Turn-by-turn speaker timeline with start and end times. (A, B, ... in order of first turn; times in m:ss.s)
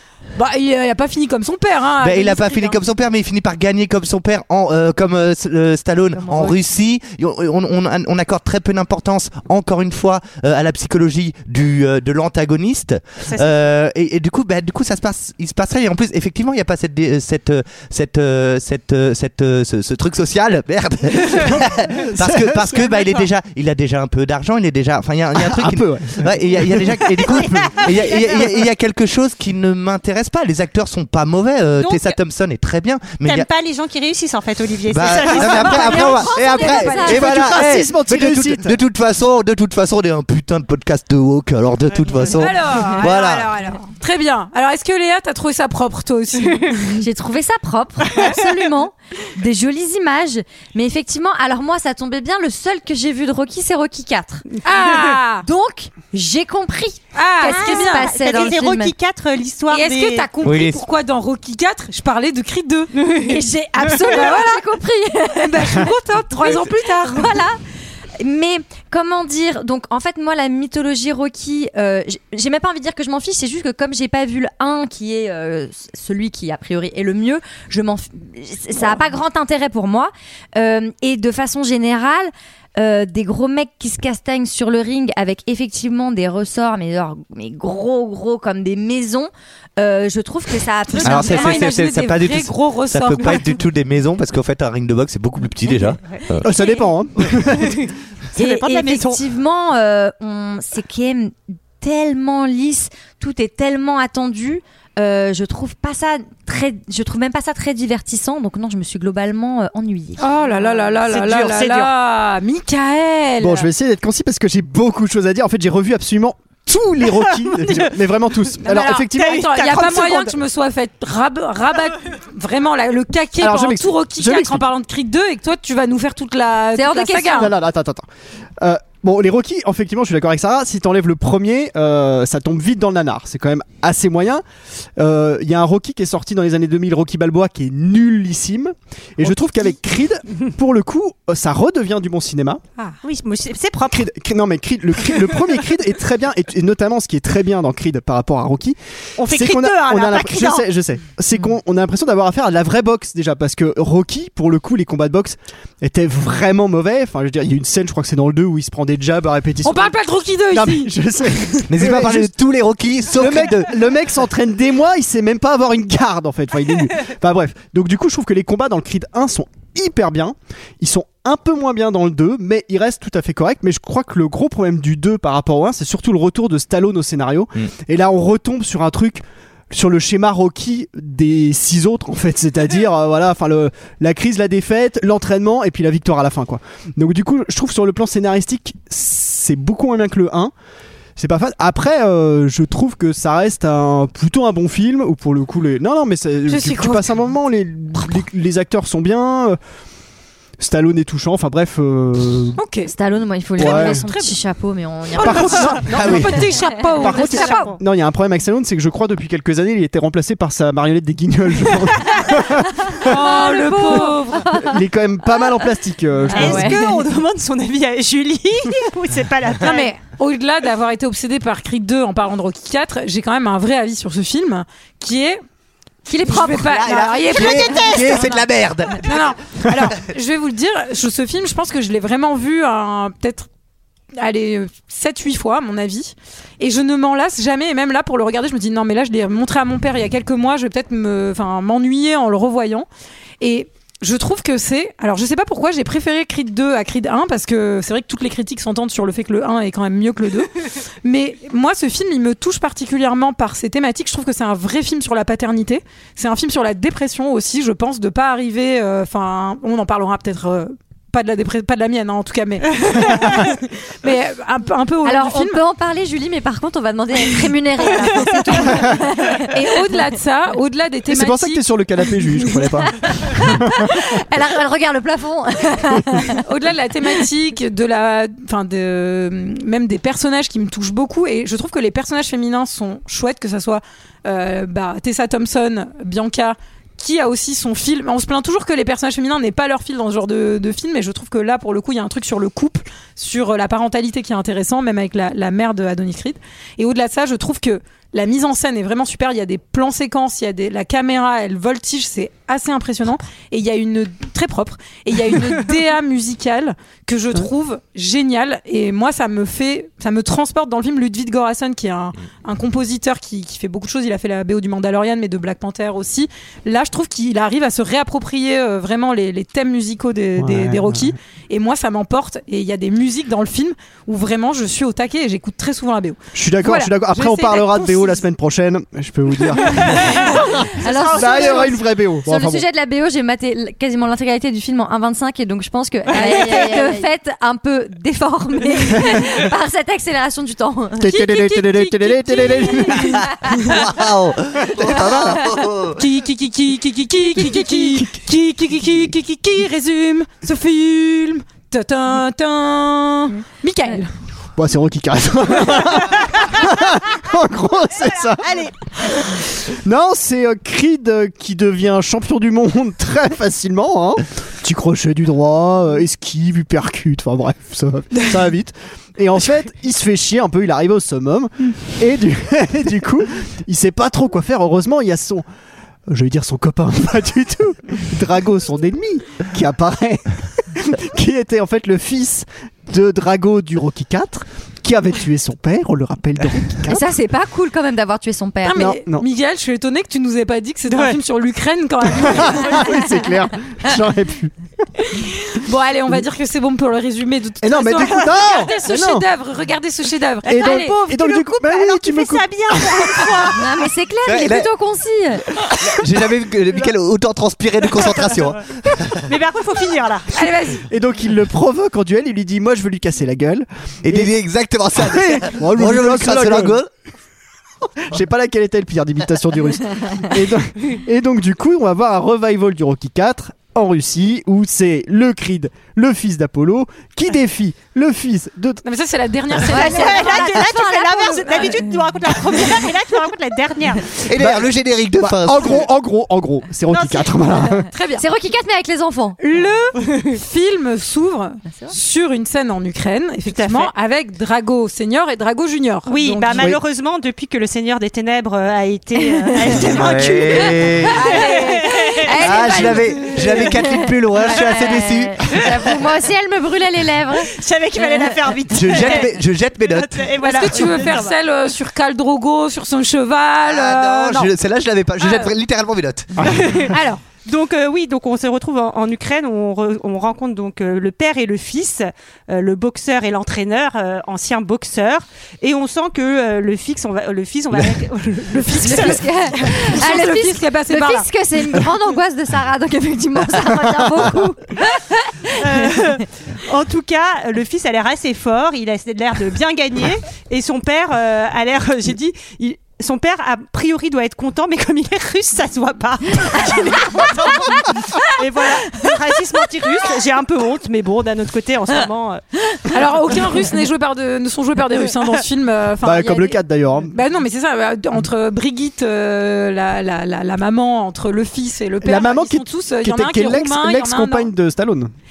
0:00.4-0:02.8 A
0:02.0-0:33.5 B
0:13.2-0:13.6 C
0:21.9-0:23.0 D
0:25.4-0:28.4 D
0:31.8-0:32.2 C
0:33.2-0:36.2 C
0:34.9-0:43.6 B
0:35.5-0:37.4 E
0:35.6-0:37.3 A
0:36.9-0:38.8 D
0:41.9-0:43.4 C
0:42.3-0:46.8 A
0:47.0-0:54.4 E
0:54.6-0:55.5 A
0:55.4-0:58.9 E
0:57.1-0:58.2 A
0:57.4-1:00.3 C
0:59.7-1:04.6 A
1:00.4-1:00.8 B
1:03.0-1:03.4 C
1:03.2-1:07.6 E
1:05.4-1:07.3 A
1:08.2-1:31.7 E
1:30.9-1:33.5 A
1:31.1-1:36.5 B
1:35.7-1:36.2 C
1:36.4-1:37.8 D
1:38.4-1:39.2 C
1:38.4-1:50.6 E
1:50.2-1:53.7 A
1:51.0-1:51.9 C
1:53.4-1:59.4 D
1:57.2-1:58.0 C
1:58.6-2:07.5 A
1:58.8-2:00.3 C
2:03.4-2:04.6 D
2:06.8-2:07.5 E
2:07.4-2:08.1 D
2:08.6-2:14.4 D
2:15.0-2:22.6 D
2:23.0-2:24.1 C
2:23.9-2:40.0 D
2:29.2-2:30.6 C
2:39.6-2:40.9 A
2:40.5-2:42.3 D
2:41.7-2:43.7 B
2:43.1-3:10.5 D
3:11.2-3:19.6 D
3:16.5-3:17.1 A
3:20.6-3:22.6 D
3:22.6-3:22.9 A
3:22.9-3:27.7 E
3:23.6-3:24.0 D
3:23.6-3:24.4 A
3:25.2-3:27.6 A
3:25.2-3:26.2 D
3:25.9-3:26.5 B
3:27.0-3:33.2 D
3:27.0-3:27.8 C
3:33.0-3:34.8 E
3:33.0-3:34.4 A
3:33.8-3:34.1 C
3:34.6-3:36.8 D
3:36.3-3:36.8 E
3:36.3-3:39.9 C
3:39.6-3:45.4 A
3:46.1-3:48.2 A
3:46.1-3:48.3 E
3:46.4-3:49.1 B
3:47.3-3:48.2 C
3:49.0-3:53.5 A
3:54.2-4:02.9 A
4:03.4-4:10.5 A
4:11.0-4:25.6 A
4:25.0-4:29.6 E
4:28.5-4:28.9 A
4:29.4-4:31.6 A
4:31.1-4:34.0 D
4:33.3-4:36.4 E
4:36.4-5:28.2 A
5:20.4-5:21.2 D
5:26.3-5:30.2 D
5:29.7-5:31.8 A
5:30.8-5:41.2 E
5:31.2-5:32.6 D
5:36.1-5:36.6 C
5:36.2-5:37.0 A
5:41.0-5:43.5 D
5:41.1-5:43.8 A
5:43.2-5:46.0 B
5:44.7-5:45.4 D
5:46.0-5:54.1 A
5:47.4-5:48.0 E
5:54.6-5:58.6 D
5:58.3-5:58.7 C
5:59.6-6:15.4 D
6:16.1-6:27.1 D
6:26.9-6:28.9 E
6:28.6-6:33.0 A
6:28.8-6:29.2 D
6:30.9-6:31.2 C
6:32.1-6:34.6 D
6:35.1-6:41.0 A
6:37.6-6:39.3 D
6:40.5-6:43.5 D
6:40.5-6:43.8 C
6:43.6-6:45.4 E
6:44.2-6:44.7 B
6:45.7-6:49.2 B
6:49.3-6:50.5 C
6:50.3-6:50.8 A
6:50.8-6:54.3 D
6:54.0-6:56.9 B
6:55.0-6:56.8 D
6:58.1-7:08.8 D
7:08.8-7:10.6 A
7:09.7-7:11.9 E
7:09.7-7:14.2 C
7:14.2-7:15.9 B
7:14.3-7:17.9 D
7:16.9-7:17.3 C
7:17.9-7:18.2 A
7:18.2-7:19.4 E
7:19.4-7:26.7 A
7:23.5-7:23.9 C
7:26.1-7:32.5 C
7:29.4-7:29.8 E
7:29.8-7:31.2 B
7:31.1-7:33.7 A
7:32.2-7:38.3 E
7:32.4-7:35.7 B
7:37.5-7:41.4 C
7:38.7-7:41.0 B
7:40.4-7:44.5 A
7:43.6-7:46.6 B
7:45.2-7:45.5 A
7:46.4-7:46.7 D
7:46.5-8:00.0 C
7:46.9-7:47.2 A
7:58.8-8:06.0 E
7:59.0-8:01.3 A
8:04.2-8:04.5 D
8:05.6-8:22.4 C
8:22.9-8:34.5 A
8:26.0-8:27.2 D
8:32.0-8:35.1 D